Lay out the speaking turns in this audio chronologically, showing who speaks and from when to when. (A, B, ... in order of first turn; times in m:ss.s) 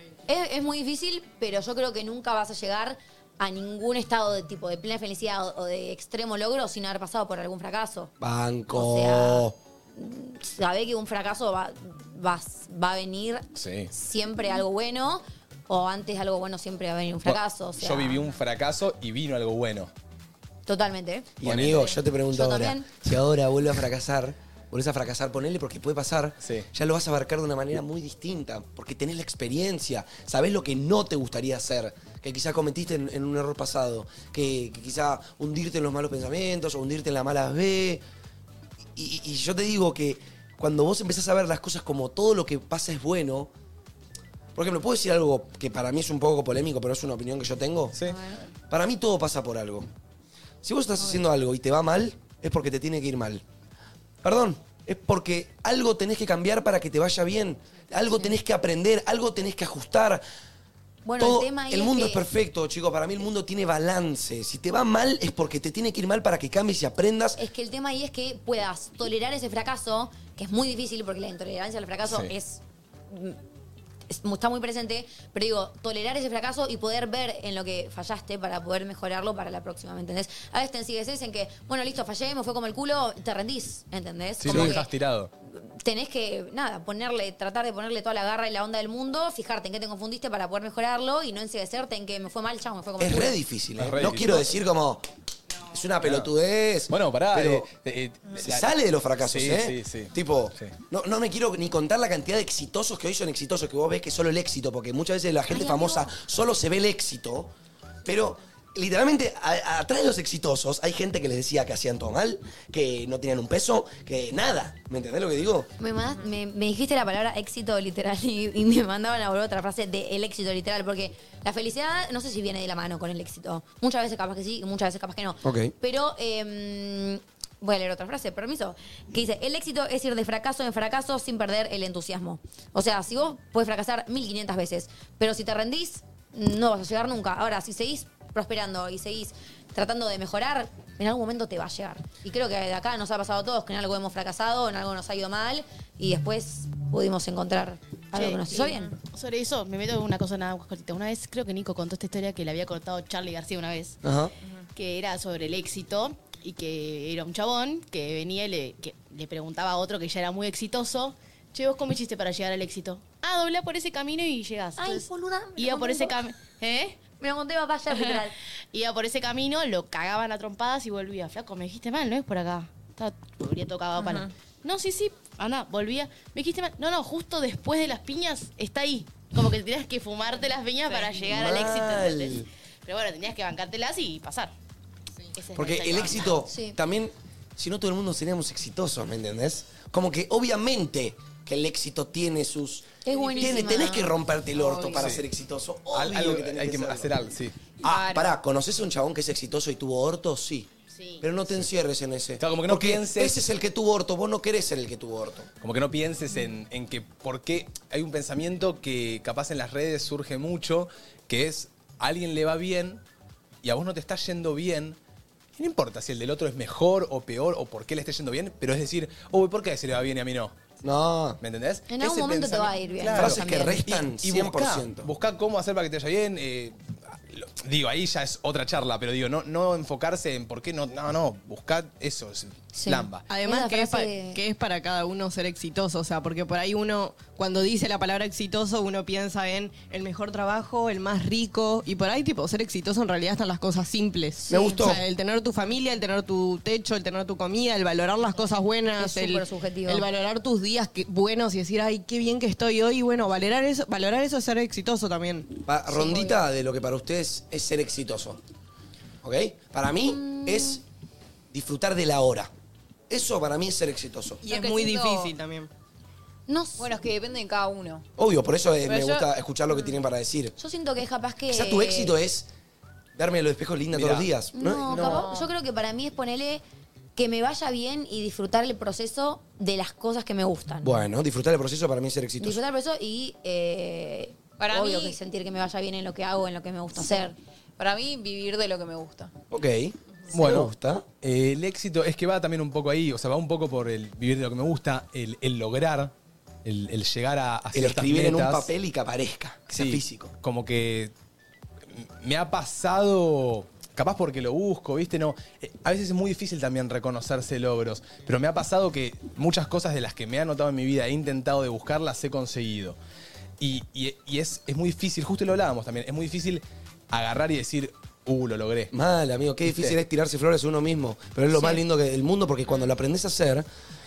0:00.3-0:08.1 A
0:08.2-0:09.6 B
0:08.7-0:18.2 A
0:13.6-0:13.9 C
0:17.2-0:19.9 C
0:20.7-0:21.3 A
0:21.4-0:38.0 B
0:21.4-0:22.0 C
0:22.3-0:22.9 A
0:26.4-0:26.7 C
0:39.0-0:43.5 B
0:44.6-0:48.0 B
0:47.9-0:48.3 C
0:48.1-0:48.4 A
0:48.7-0:49.9 B
0:50.6-0:53.4 B
0:54.2-1:00.2 B
1:01.0-1:02.2 A
1:01.2-1:07.4 B
1:07.4-1:13.4 A
1:12.0-1:12.3 C
1:14.1-1:24.9 A
1:24.4-1:25.3 C
1:24.5-1:24.8 B
1:25.5-1:33.4 A
1:33.0-1:35.0 B
1:33.8-1:34.6 C
1:35.7-1:37.7 B
1:36.0-1:36.3 C
1:36.9-1:40.7 C
1:38.4-1:47.5 B
1:45.5-1:46.1 A
1:48.0-1:55.7 B
1:55.8-2:29.0 A
2:05.4-2:05.7 B
2:28.1-2:34.0 D
2:28.5-2:28.8 E
2:34.0-2:34.3 B
2:34.8-2:47.0 D
2:44.8-2:46.2 A
2:47.2-2:48.3 A
2:47.9-3:04.5 D
2:54.0-2:54.3 E
3:01.3-3:02.5 B
3:05.3-3:06.5 D
3:05.6-3:17.2 B
3:06.5-3:06.8 A
3:13.0-3:14.9 A
3:14.9-3:15.2 C
3:15.9-3:17.6 C
3:17.8-3:20.7 B
3:17.8-3:18.4 E
3:20.9-3:21.2 D
3:21.2-3:25.5 B
3:22.4-3:23.5 C
3:25.6-3:33.0 C
3:33.6-3:35.0 C
3:35.6-3:40.6 C
3:40.8-3:41.4 B
3:41.4-3:53.3 C
3:41.9-3:43.8 A
3:43.1-3:45.1 B
3:52.8-3:54.4 A
3:53.3-4:15.6 F
4:04.5-4:04.8 A
4:04.5-4:05.0 B
4:09.0-4:10.1 A
4:15.7-4:18.4 B
4:15.9-4:16.4 A
4:19.2-4:20.8 B
4:20.0-4:20.8 A
4:21.5-4:22.5 B
4:23.1-4:24.4 B
4:24.4-4:25.7 F
4:24.5-4:25.3 E
4:26.5-4:26.9 A
4:26.8-4:28.1 E
4:28.2-4:30.6 B
4:28.9-4:29.3 E
4:30.6-4:32.2 A
4:31.5-4:32.5 B
4:33.2-4:35.2 B
4:33.9-4:34.3 C
4:34.6-4:36.6 A
4:34.9-4:35.5 E
4:35.0-4:35.2 C
4:37.2-4:41.0 A
4:40.8-4:42.6 B
4:42.4-4:47.4 A
4:44.6-4:45.2 E
4:47.0-4:47.2 E
4:47.8-4:49.3 E
4:49.5-4:51.0 B
4:50.3-4:56.1 C
4:56.6-4:58.7 C
4:57.7-5:00.3 B
4:59.7-5:01.1 C
5:01.9-5:13.0 C
5:13.6-5:18.9 C
5:18.9-5:23.7 B
5:19.7-5:20.0 C
5:21.5-5:21.8 A